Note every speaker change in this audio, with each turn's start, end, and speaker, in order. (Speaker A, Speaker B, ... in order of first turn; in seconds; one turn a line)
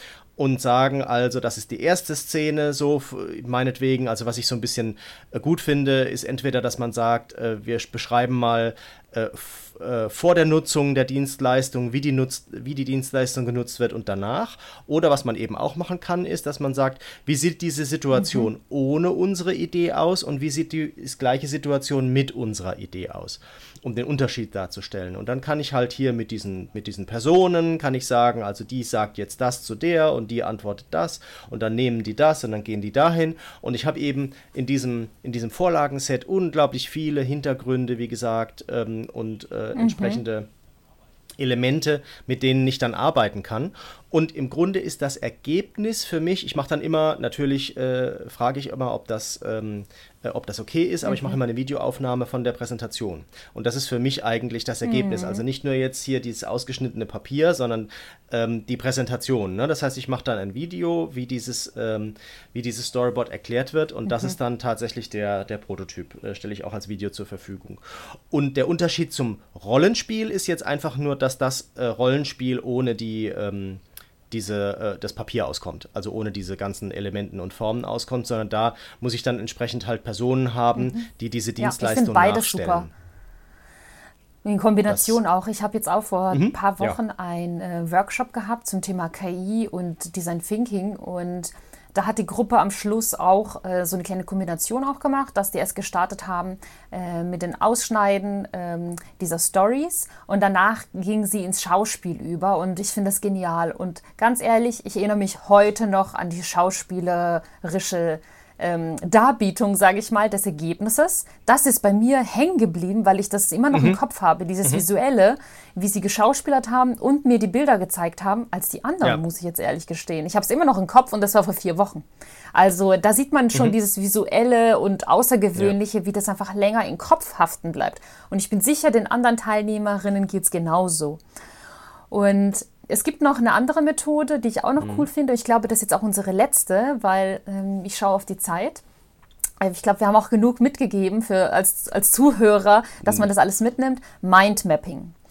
Speaker A: 0.4-40.5
Speaker B: 18.2-18.5
Speaker B: 39.8-40.2
Speaker A: 41.4-82.9
Speaker B: 51.0-51.4
Speaker B: 54.8-55.4
Speaker B: 80.8-81.1
Speaker B: 81.6-82.9
Speaker B: 84.4-131.2
Speaker A: 84.9-85.2
Speaker A: 86.3-87.0
Speaker A: 113.7-114.0
Speaker B: 132.1-138.8
Speaker A: 134.8-135.1
Speaker B: 139.6-145.1